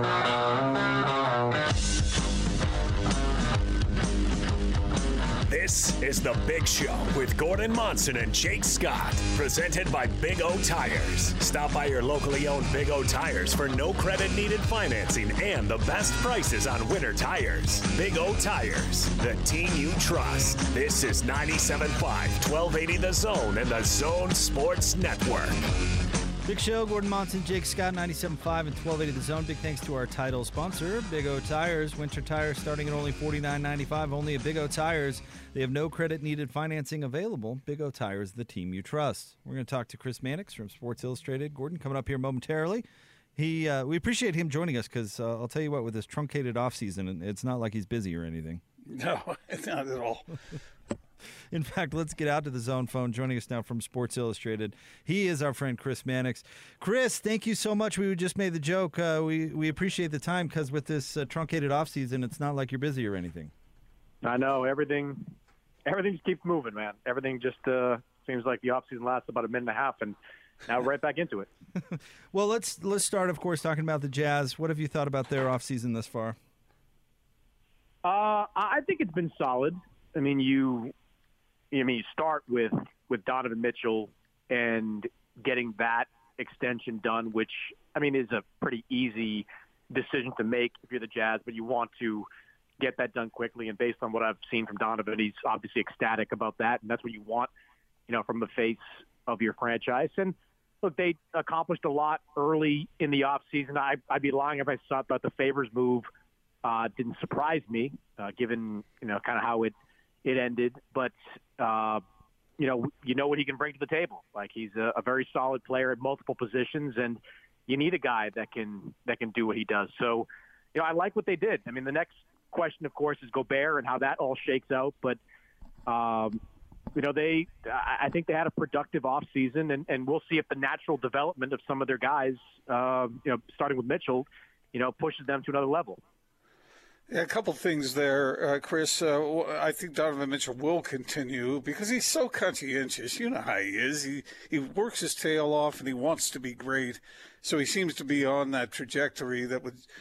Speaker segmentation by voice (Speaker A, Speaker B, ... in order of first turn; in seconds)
Speaker A: 5.5-25.5
Speaker B: 26.4-42.8, 43.4-48.6, 51.5-63.5, 71.9-76.4
Speaker C: 48.9-50.4, 137.1-149.8
Speaker D: 64.2-65.3, 65.9-71.5, 78.0-80.9, 81.7-92.3, 92.8-97.5, 98.1-106.1, 106.6-109.7, 110.2-112.0, 112.6-125.2, 125.9-126.4, 127.0-136.0